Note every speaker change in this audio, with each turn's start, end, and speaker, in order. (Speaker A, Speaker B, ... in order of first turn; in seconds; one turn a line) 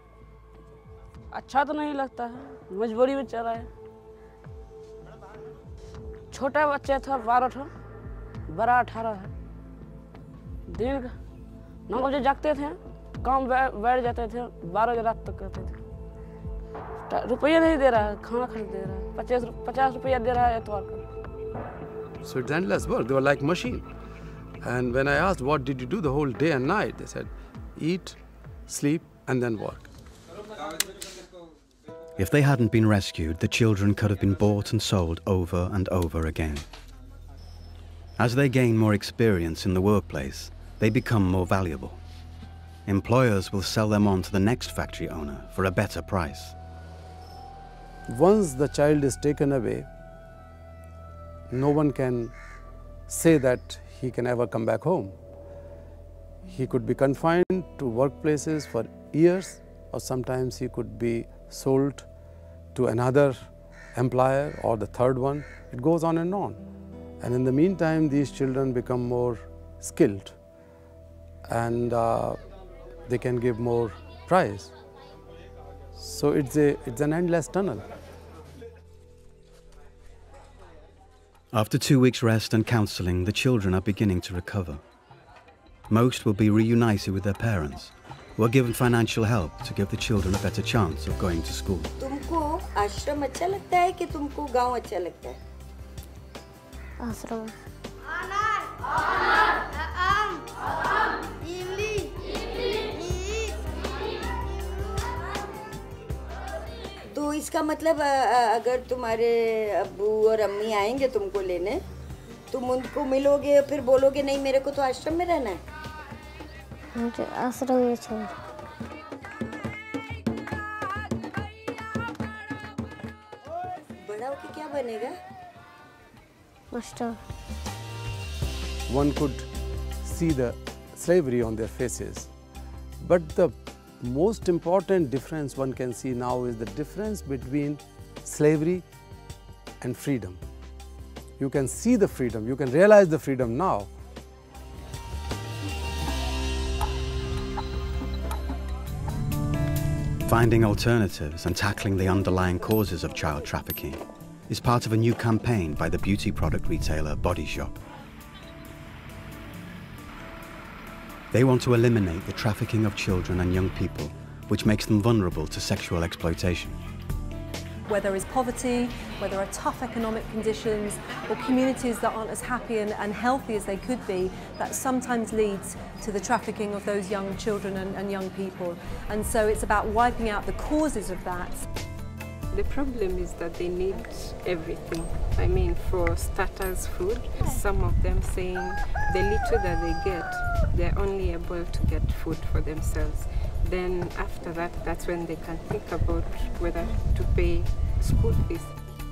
Speaker A: 1.3-3.7
Speaker A: 6.3-7.7
Speaker A: 8.5-9.3
Speaker A: 10.7-11.1
Speaker A: 11.9-15.7
Speaker A: 17.1-21.0
Speaker B: 22.2-23.9
Speaker B: 24.6-29.9
Speaker C: 32.2-36.7
Speaker C: 38.2-42.0
Speaker C: 42.9-46.5
Speaker B: 48.1-49.9
Speaker B: 51.5-52.3
Speaker B: 53.1-55.1
Speaker B: 56.5-62.1
Speaker B: 62.7-66.6
Speaker B: 67.2-70.4
Speaker B: 71.5-72.4
Speaker B: 73.1-74.7
Speaker B: 76.0-77.8
Speaker C: 81.5-84.8
Speaker C: 85.9-91.9
Speaker D: 92.0-95.4
Speaker E: 97.0-97.5
Speaker D: 101.7-102.0
Speaker D: 107.1-111.8
Speaker D: 112.5-115.6
Speaker E: 116.9-118.3
Speaker D: 124.0-125.1
Speaker E: 126.7-127.2
Speaker B: 128.9-129.5
Speaker B: 130.0-132.3
Speaker B: 133.0-138.8
Speaker B: 139.8-140.4
Speaker B: 141.4-143.9
Speaker C: 150.2-157.8
Speaker C: 161.3-166.8
Speaker F: 167.9-181.7
Speaker G: 182.5-198.7